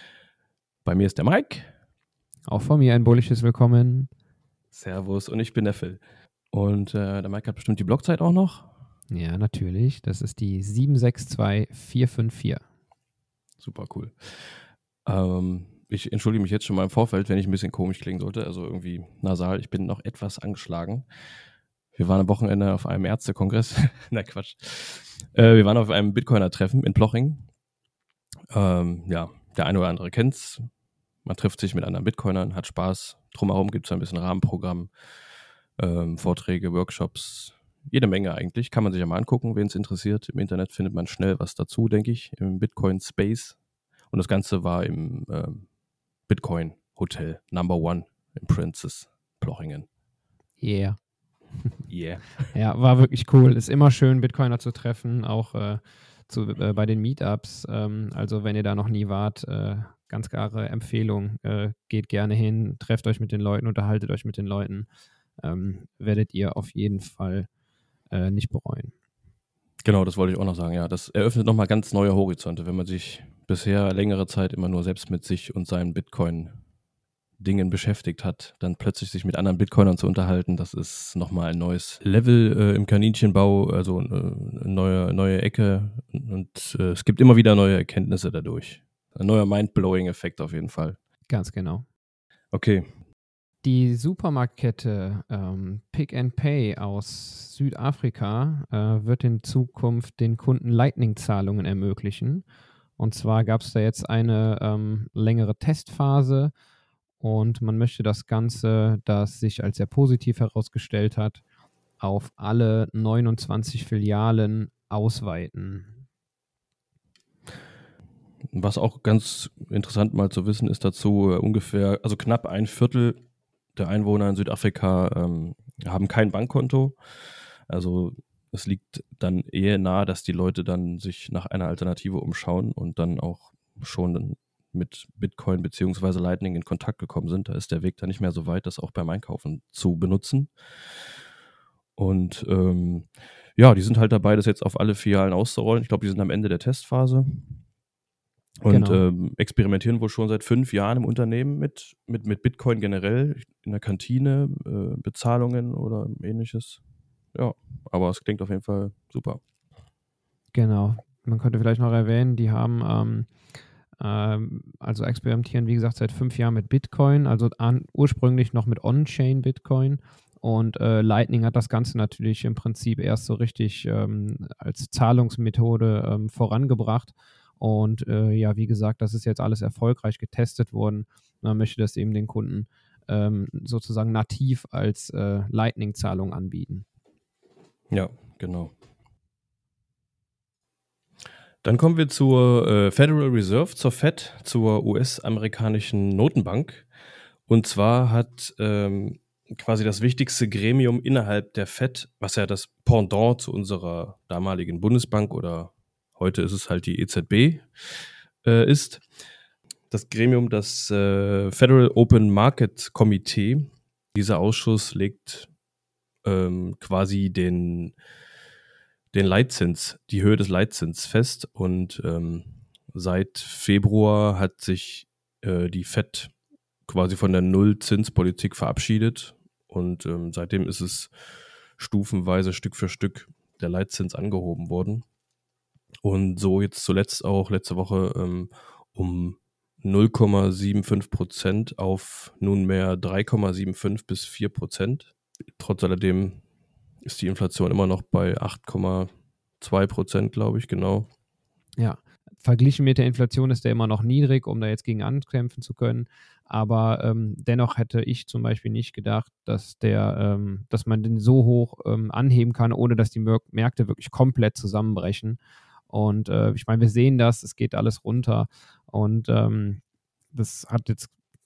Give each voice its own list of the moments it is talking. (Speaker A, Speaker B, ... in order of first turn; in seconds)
Speaker A: 0.8-1.7, 4.7-6.0, 6.5-8.7, 13.6-21.1, 21.9-27.5, 28.5-30.7, 31.2-34.9, 35.8-43.6, 44.1-45.7, 46.3-49.9, 51.9-52.5, 69.8-76.6, 77.4-91.0, 92.5-92.8, 118.5-123.2, 123.8-140.5, 142.0-147.6, 148.6-156.8, 157.3-159.4, 187.9-188.7, 191.6-196.9, 197.5-209.0, 209.9-215.5, 216.2-217.9, 219.1-226.3, 226.9-231.1, 231.8-235.0, 236.0-246.4, 247.0-251.1
Speaker B: 2.5-4.1, 9.1-12.6, 50.6-51.0, 52.5-64.9, 65.4-67.5, 68.1-68.9, 91.3-91.8, 93.6-102.5, 103.0-106.5, 107.2-111.4, 112.0-116.0, 148.7-149.0, 160.5-163.3, 164.0-186.8, 251.8-269.8, 270.3-271.1